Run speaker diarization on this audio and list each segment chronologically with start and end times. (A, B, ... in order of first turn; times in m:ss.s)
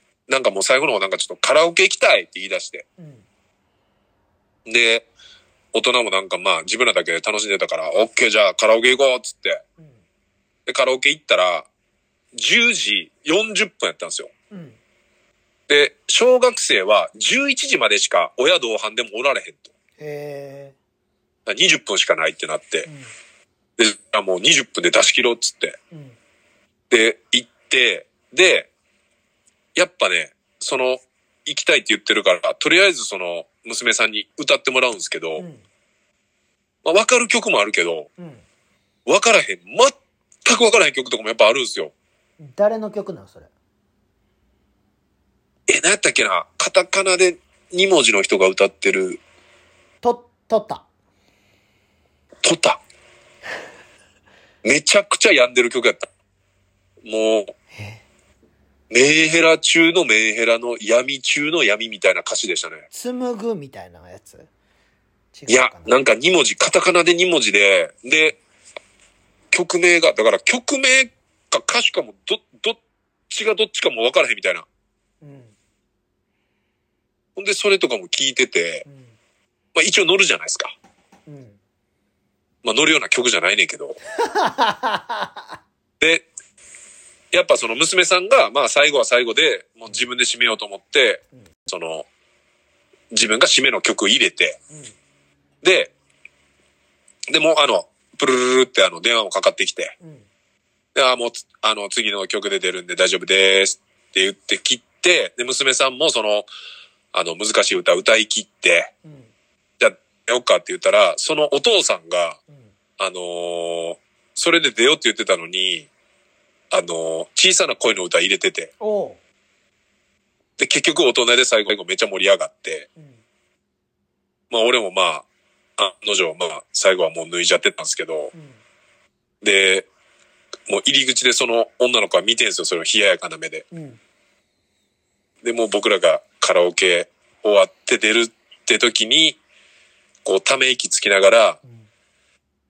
0:00.3-0:02.9 A
0:03.0-0:03.3 B
0:04.7-0:05.1 A
0:05.7-0:09.6 A
0:10.7-0:11.7 A
0:12.4-0:14.3 A
0:14.5-0:14.8 B
0:15.7-0:19.7 A
0:20.0-0:20.8 B
0:21.5-0:22.9 A
0:22.9-0:23.1 B
0:23.8-0:25.8 A
0:25.9-0:26.2 B
0:26.9-0:28.7 A
0:29.8-0:35.4 A
0:35.4-0:35.6 B
0:36.8-0:38.1 A
0:38.2-0:38.4 B
0:39.1-0:39.9 A
0:40.4-0:41.9 A
0:42.4-0:43.5 B
0:45.7-0:49.2 A
0:50.0-0:50.8 B
0:52.4-0:52.8 A
0:54.6-0:56.1 A
0:57.0-0:57.5 A
0:57.7-0:58.0 B
0:58.9-1:02.8 A
1:02.9-1:04.5 B
1:05.3-1:06.0 B
1:05.5-1:08.4 A
1:09.5-1:12.8 A
1:13.3-1:14.7 A
1:15.2-1:15.6 B
1:17.4-1:18.8 A
1:18.8-1:19.2 B
1:19.8-1:20.7 A
1:21.3-1:21.6 B
1:22.6-1:24.0 A
1:24.1-1:25.4 B
1:26.0-1:26.3 A
1:27.3-1:32.1 A
1:33.1-1:34.6 A
1:35.6-1:35.9 A
1:37.3-1:39.9 A
1:40.0-1:40.3 B
1:41.0-1:46.5 A
1:47.1-1:48.9 A
1:49.0-1:49.3 B
1:49.8-1:52.4 A
1:53.0-1:55.9 A
1:56.7-1:58.7 A
1:58.8-1:59.2 B
2:00.6-2:02.9 A
2:03.0-2:03.2 B
2:04.5-2:05.2 A
2:05.8-2:08.3 A
2:08.3-2:08.6 B
2:09.4-2:09.9 A
2:10.7-2:13.6 A
2:13.7-2:14.0 B
2:15.4-2:19.4 A
2:20.2-2:21.6 A